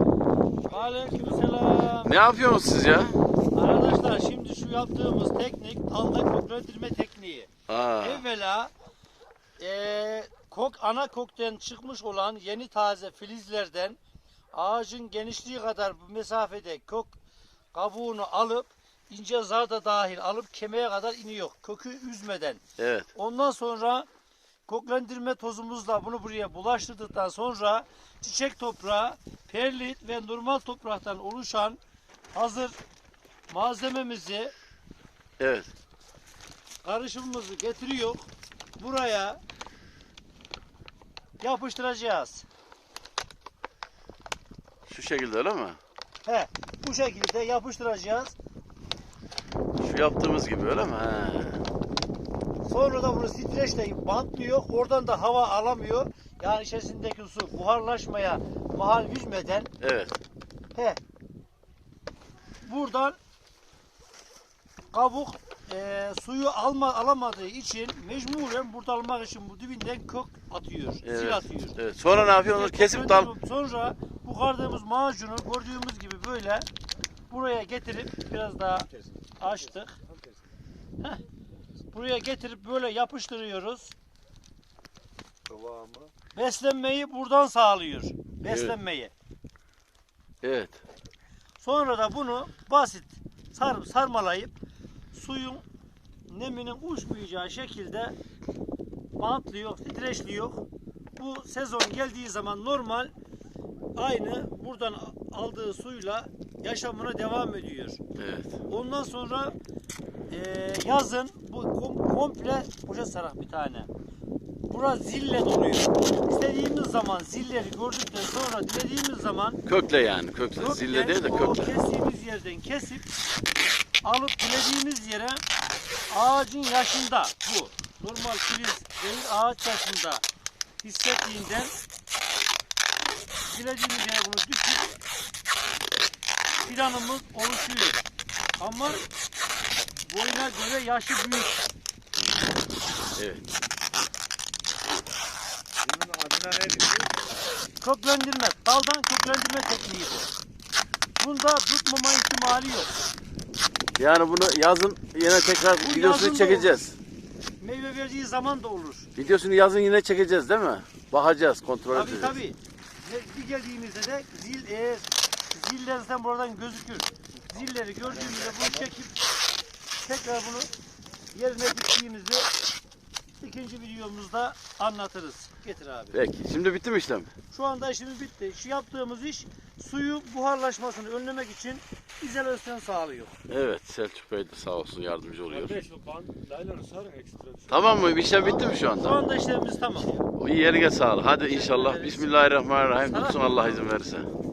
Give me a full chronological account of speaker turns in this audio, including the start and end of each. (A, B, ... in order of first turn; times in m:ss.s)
0:00.6-0:02.2 A
0:02.0-0:03.2 B
0:03.5-0:08.7 A
0:07.7-0:08.2 B
0:09.6-0:14.0 A
0:14.5-0:17.2 A
0:17.7-0:22.6 A
0:22.8-0:23.1 B
0:23.2-0:24.1 A
0:24.7-0:31.8 A
0:32.3-0:32.8 A
0:33.5-0:34.5 A
0:35.4-0:35.7 B
0:36.8-0:38.3 A
0:38.8-0:39.4 A
0:41.4-0:42.4 A
0:44.9-0:45.8 B
0:46.3-0:48.3 A
0:49.8-0:51.6 B
0:52.7-0:59.7 A
0:59.8-1:00.2 B
1:00.8-1:01.0 A
1:02.6-1:03.2 A
1:04.9-1:16.7 A
1:11.0-1:13.3 B
1:17.3-1:20.0 A
1:21.9-1:24.0 A
1:25.5-1:26.1 C
1:26.3-1:29.1 A
1:28.5-1:28.8 B
1:30.4-1:30.8 B
1:31.6-1:34.5 A
1:35.1-1:35.6 A
1:36.3-1:38.2 A
1:39.2-1:40.6 A
1:41.2-1:43.1 A
1:44.0-1:48.0 A
1:48.2-1:48.5 B
1:48.7-1:49.5 A
1:50.3-1:53.9 A
1:54.6-1:59.6 A
1:59.7-2:01.7 B
2:00.6-2:03.1 A
2:04.0-2:05.4 A
2:06.1-2:10.2 A
2:10.8-2:11.7 A
2:13.5-2:15.0 A
2:16.6-2:18.0 A
2:18.6-2:19.0 A
2:20.1-2:21.6 A
2:23.2-2:23.4 B
2:25.8-2:27.1 C
2:27.8-2:30.3 A
2:31.2-2:33.0 A
2:34.0-2:37.0 B
2:35.8-2:36.8 A
2:37.6-2:39.1 A
2:39.2-2:42.4 B
2:41.9-2:49.2 A
2:50.0-2:50.7 A
2:51.3-2:52.5 A
2:53.4-2:56.2 A
2:56.1-2:57.3 B
2:57.5-3:03.4 A
3:03.5-3:05.8 B
3:05.5-3:07.9 C
3:07.7-3:09.2 B
3:08.3-3:10.2 A
3:10.4-3:14.3 B
3:11.4-3:13.9 A